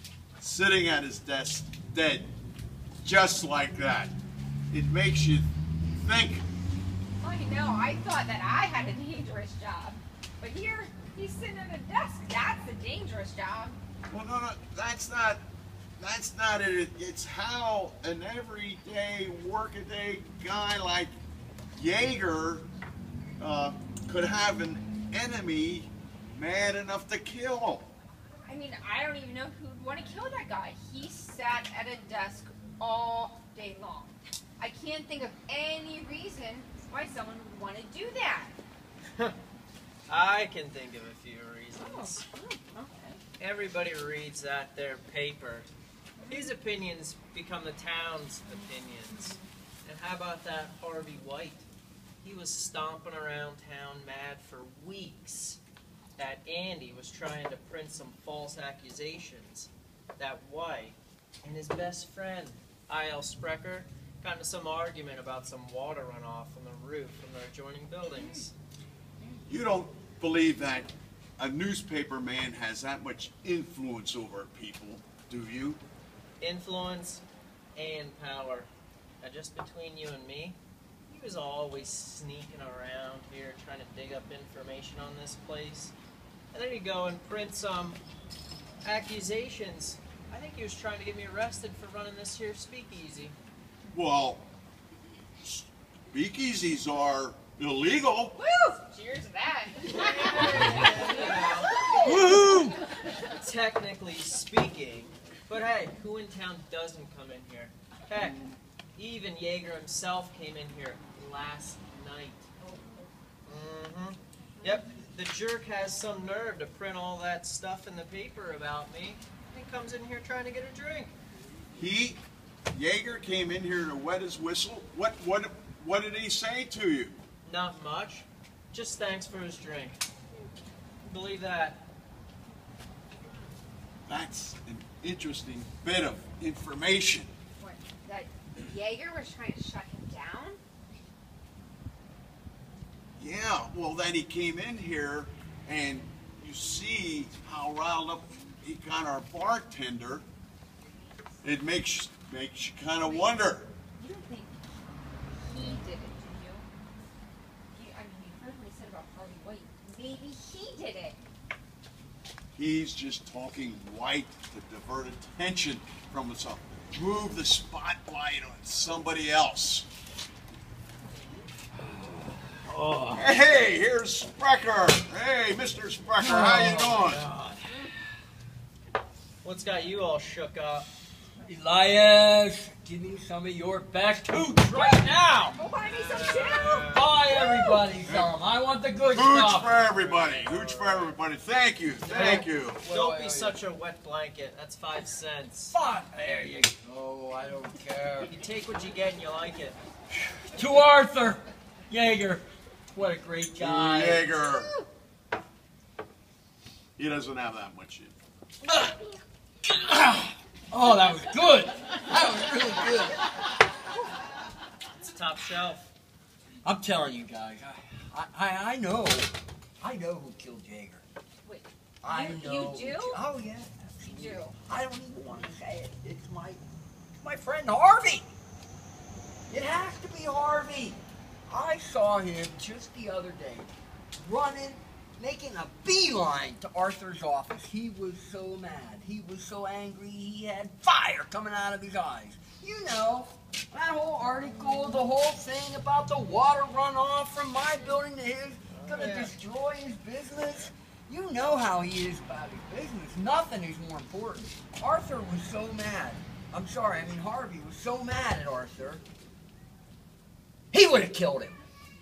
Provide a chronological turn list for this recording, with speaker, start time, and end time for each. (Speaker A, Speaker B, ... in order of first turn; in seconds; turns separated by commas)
Speaker A: 0.3-2.3, Speaker A: 3.0-4.1, Speaker A: 4.7-5.5, Speaker A: 6.0-6.5, Speaker B: 7.2-13.8, Speaker A: 14.1-15.4, Speaker A: 16.0-21.1, Speaker A: 21.8-22.7, Speaker A: 23.4-27.9, Speaker B: 28.5-38.5, Speaker C: 40.1-42.2, Speaker B: 41.8-43.2, Speaker C: 43.4-45.7, Speaker B: 46.2-46.5, Speaker C: 46.3-51.7, Speaker C: 52.2-55.6, Speaker C: 56.2-68.5, Speaker B: 68.1-68.4, Speaker A: 69.5-75.8, Speaker C: 76.4-77.2, Speaker C: 77.8-78.7, Speaker C: 79.2-85.9, Speaker C: 86.5-88.0, Speaker C: 88.8-93.3, Speaker A: 93.9-94.5, Speaker A: 95.4-98.4, Speaker B: 98.3-102.8, Speaker C: 100.0-101.7, Speaker D: 102.0-102.7, Speaker C: 103.4-108.4, Speaker C: 109.0-112.5, Speaker B: 112.6-113.1, Speaker C: 113.5-121.2, Speaker A: 121.7-122.2, Speaker A: 122.7-127.2, Speaker C: 127.5-130.0, Speaker C: 131.0-131.9, Speaker A: 134.1-137.3, Speaker B: 137.6-140.6, Speaker A: 143.2-150.3, Speaker A: 151.4-153.7, Speaker B: 153.0-153.4, Speaker B: 154.0-154.6, Speaker B: 155.3-156.7, Speaker B: 157.7-161.2, Speaker A: 162.5-169.9, Speaker D: 171.9-173.2, Speaker A: 173.1-177.2, Speaker D: 176.2-177.9, Speaker C: 179.4-180.9, Speaker D: 181.4-185.6, Speaker C: 185.5-187.1, Speaker B: 185.6-187.9, Speaker D: 186.4-190.1, Speaker A: 188.0-188.3, Speaker A: 189.1-192.8, Speaker C: 190.0-191.2, Speaker D: 192.0-193.6, Speaker C: 192.1-195.8, Speaker D: 195.7-198.3, Speaker C: 198.3-199.8, Speaker D: 200.4-204.3, Speaker A: 203.6-204.7, Speaker B: 204.4-204.9, Speaker A: 207.0-208.2, Speaker D: 208.6-209.1, Speaker D: 209.7-213.2, Speaker C: 214.9-215.9, Speaker D: 216.6-221.0, Speaker B: 221.4-223.2, Speaker D: 222.0-226.6, Speaker B: 224.1-224.6, Speaker D: 227.2-228.3, Speaker D: 229.5-259.0, Speaker C: 248.8-249.3, Speaker D: 260.7-261.6